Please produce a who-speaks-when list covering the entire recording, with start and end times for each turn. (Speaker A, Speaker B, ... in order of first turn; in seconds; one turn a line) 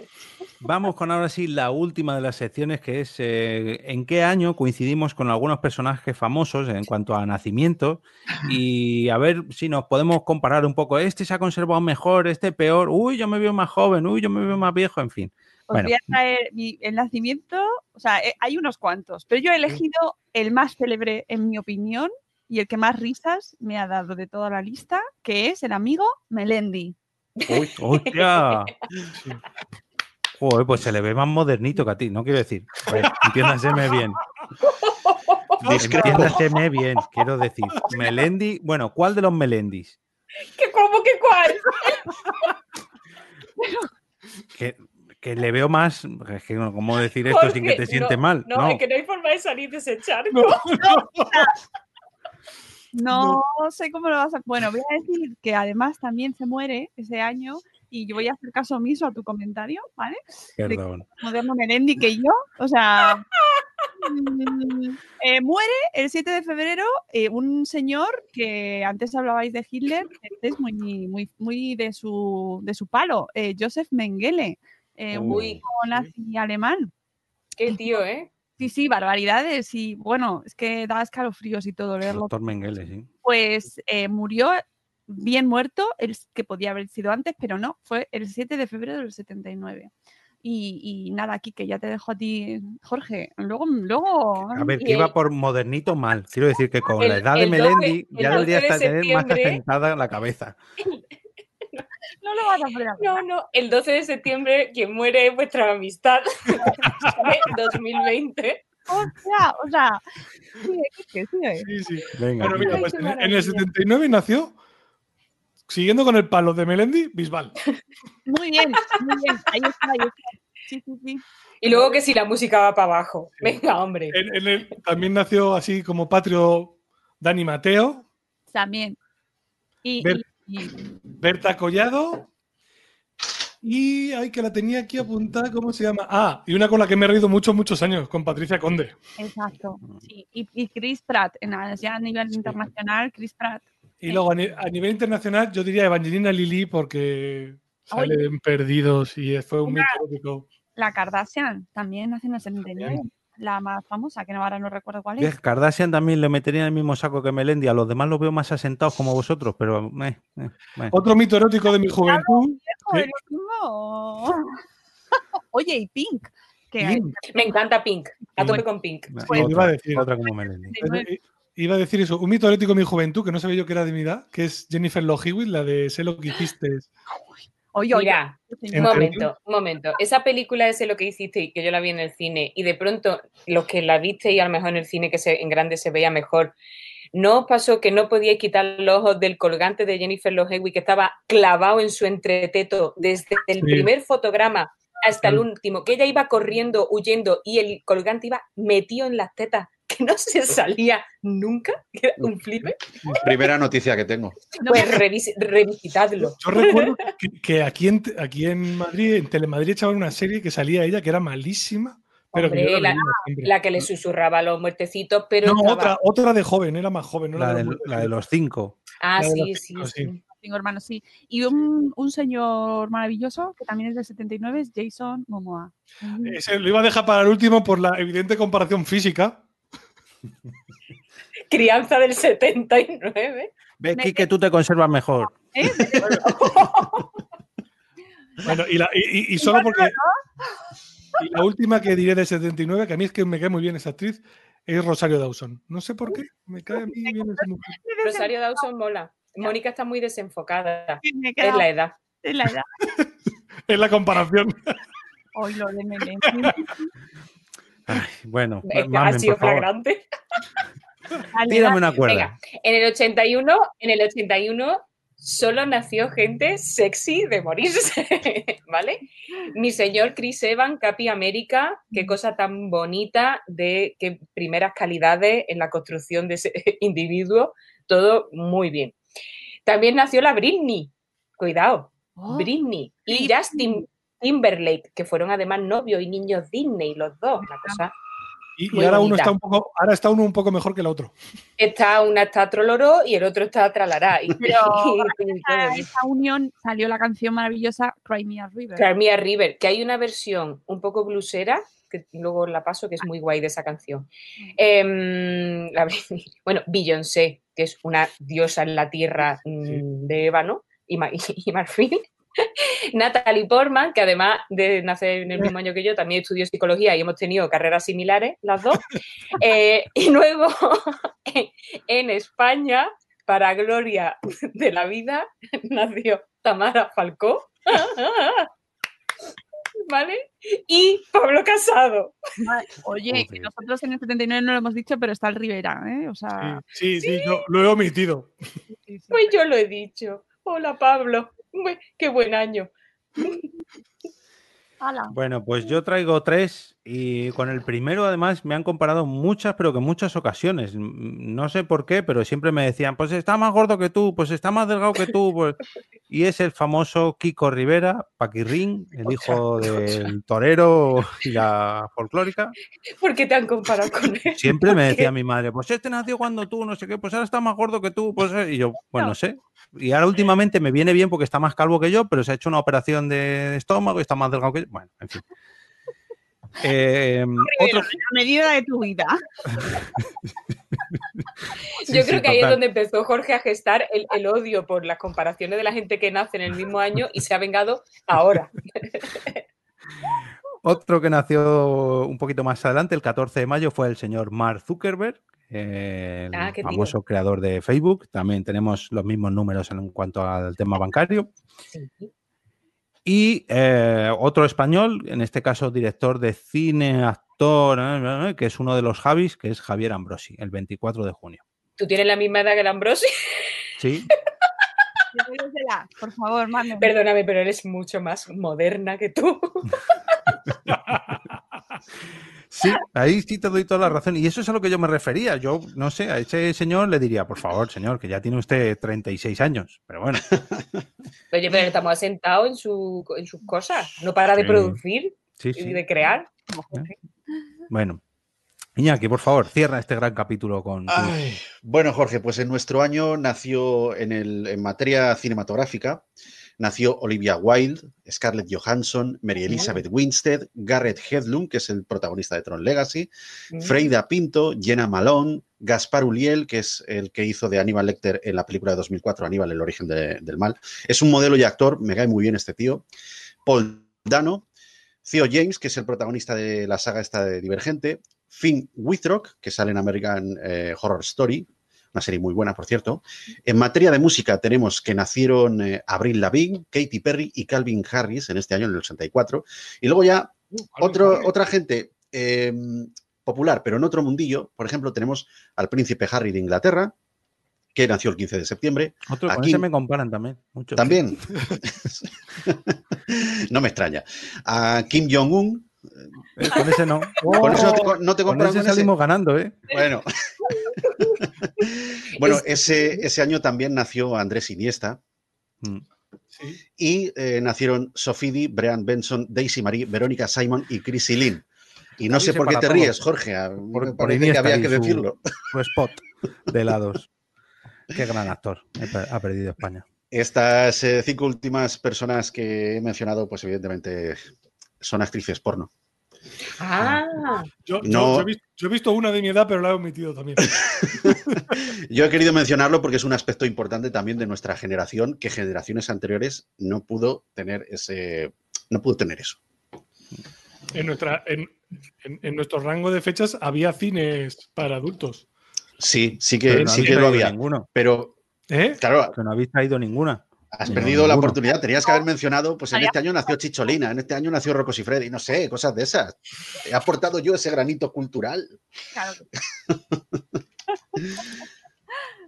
Speaker A: 0.6-16.0
Speaker B: 15.7-27.0
Speaker C: 27.4-28.7
Speaker A: 27.8-28.7
Speaker A: 30.4-34.2
Speaker D: 32.9-33.5
Speaker C: 34.7-35.6
Speaker D: 35.6-36.3
Speaker E: 35.6-36.4
Speaker A: 35.8-40.0
Speaker C: 40.6-42.2
Speaker B: 43.6-43.9
Speaker A: 44.5-48.8
Speaker C: 47.3-50.6
Speaker D: 50.3-51.5
Speaker B: 50.8-51.5
Speaker B: 52.9-63.2
Speaker D: 53.1-53.4
Speaker A: 60.6-61.1
Speaker B: 64.0-76.9
Speaker A: 75.1-75.6
Speaker C: 75.3-75.6
Speaker C: 77.6-78.3
Speaker B: 77.7-78.0
Speaker B: 78.6-82.4
Speaker A: 82.1-83.1
Speaker B: 83.2-89.9
Speaker B: 90.4-94.8
Speaker A: 94.5-100.6
Speaker C: 94.8-95.1
Speaker C: 97.0-99.6
Speaker B: 102.2-103.2
Speaker C: 103.0-108.6
Speaker D: 106.9-107.4
Speaker B: 108.9-110.0
Speaker B: 110.5-111.7
Speaker D: 111.6-114.6
Speaker A: 112.2-113.0
Speaker C: 112.5-113.5
Speaker B: 113.0-113.6
Speaker D: 115.7-117.5
Speaker B: 118.3-121.9
Speaker C: 121.6-124.2
Speaker D: 124.1-128.1
Speaker B: 128.5-129.0
Speaker B: 129.8-130.7
Speaker D: 130.0-130.3
Speaker D: 131.2-132.3
Speaker D: 133.6-139.0
Speaker B: 139.2-144.2
Speaker D: 144.0-150.5
Speaker B: 147.9-148.3
Speaker B: 149.7-150.0
Speaker B: 150.8-155.3
Speaker A: 155.2-161.0
Speaker D: 160.9-163.1
Speaker B: 162.0-164.5
Speaker B: 165.5-167.5
Speaker D: 166.8-167.1
Speaker C: 167.3-169.2
Speaker A: 168.4-170.8
Speaker D: 169.3-170.1
Speaker B: 169.3-169.6
Speaker B: 170.7-171.1
Speaker D: 170.8-176.9
Speaker B: 177.7-179.1
Speaker C: 177.9-186.5
Speaker D: 178.7-179.3
Speaker C: 187.1-202.9
Speaker D: 193.6-193.9
Speaker E: 203.2-204.4
Speaker B: 204.6-205.0
Speaker C: 204.6-207.1
Speaker D: 206.2-213.9
Speaker C: 212.4-215.9
Speaker B: 212.9-213.2
Speaker D: 215.4-218.2
Speaker A: 217.4-218.8
Speaker C: 219.0-220.2
Speaker D: 219.2-220.1
Speaker B: 220.4-226.4
Speaker D: 226.2-229.4
Speaker C: 231.5-233.5
Speaker A: 233.8-235.4
Speaker B: 233.9-234.3
Speaker B: 235.3-237.0
Speaker E: 235.9-236.2
Speaker D: 238.4-240.0
Speaker B: 239.4-240.2
Speaker D: 241.2-247.8
Speaker B: 246.7-248.3
Speaker C: 248.0-251.9
Speaker B: 251.0-251.7
Speaker B: 252.2-252.7
Speaker D: 253.7-254.8
Speaker B: 255.3-256.9
Speaker D: 256.2-256.6
Speaker A: 257.9-259.7
Speaker C: 258.6-260.1
Speaker B: 261.3-261.8
Speaker A: 261.5-262.3
Speaker C: 262.1-279.0
Speaker C: 279.7-287.9
Speaker B: 282.2-282.5
Speaker B: 283.1-283.8
Speaker B: 287.4-287.8
Speaker D: 288.6-291.1
Speaker C: 288.7-289.3
Speaker C: 291.6-295.9
Speaker B: 294.4-298.9
Speaker C: 298.8-328.5
Speaker C: 329.9-332.2
Speaker B: 332.4-336.6
Speaker A: 333.1-333.5
Speaker D: 336.4-338.3
Speaker C: 337.0-337.4
Speaker B: 338.7-339.3
Speaker C: 339.1-343.5
Speaker B: 344.8-345.1
Speaker A: 345.1-362.6
Speaker C: 359.1-360.0
Speaker C: 363.0-365.1
Speaker A: 364.3-375.2
Speaker A: 376.6-377.9
Speaker B: 377.4-379.2
Speaker A: 379.6-379.8
Speaker C: 381.8-389.4
Speaker A: 381.9-382.6
Speaker A: 390.6-401.3
Speaker C: 396.3-396.9
Speaker C: 401.7-402.1
Speaker A: 403.1-411.4
Speaker C: 411.8-413.4
Speaker A: 413.8-414.1
Speaker B: 415.1-416.9
Speaker C: 416.8-419.9
Speaker D: 420.7-421.2
Speaker A: 422.5-430.4
Speaker C: 431.3-436.3
Speaker A: 434.4-434.8
Speaker A: 435.4-435.8
Speaker B: 436.5-437.0
Speaker A: 437.7-438.0
Speaker A: 438.8-441.2
Speaker E: 440.9-446.0
Speaker E: 446.6-462.9
Speaker C: 453.5-453.8
Speaker E: 463.5-464.4
Speaker E: 465.1-486.9
Speaker D: 480.6-481.3
Speaker E: 487.8-489.7
Speaker A: 489.1-491.0
Speaker E: 490.7-495.7
Speaker A: 496.4-499.7
Speaker D: 497.2-498.0
Speaker E: 497.4-498.9
Speaker E: 499.7-505.0
Speaker C: 500.8-501.1
Speaker C: 502.2-503.0
Speaker E: 506.8-511.4
Speaker E: 512.0-515.2
Speaker A: 512.1-513.0
Speaker A: 513.7-517.1
Speaker A: 517.9-519.9
Speaker E: 520.1-524.2
Speaker E: 524.8-525.7
Speaker C: 526.6-527.5
Speaker D: 527.7-531.5
Speaker E: 527.8-528.3
Speaker E: 530.5-539.4
Speaker D: 540.7-545.3
Speaker E: 545.8-548.1
Speaker A: 546.5-547.7
Speaker D: 548.5-548.8
Speaker E: 548.8-549.1
Speaker A: 549.1-551.4
Speaker E: 550.5-558.6
Speaker B: 558.9-559.3
Speaker E: 559.7-560.2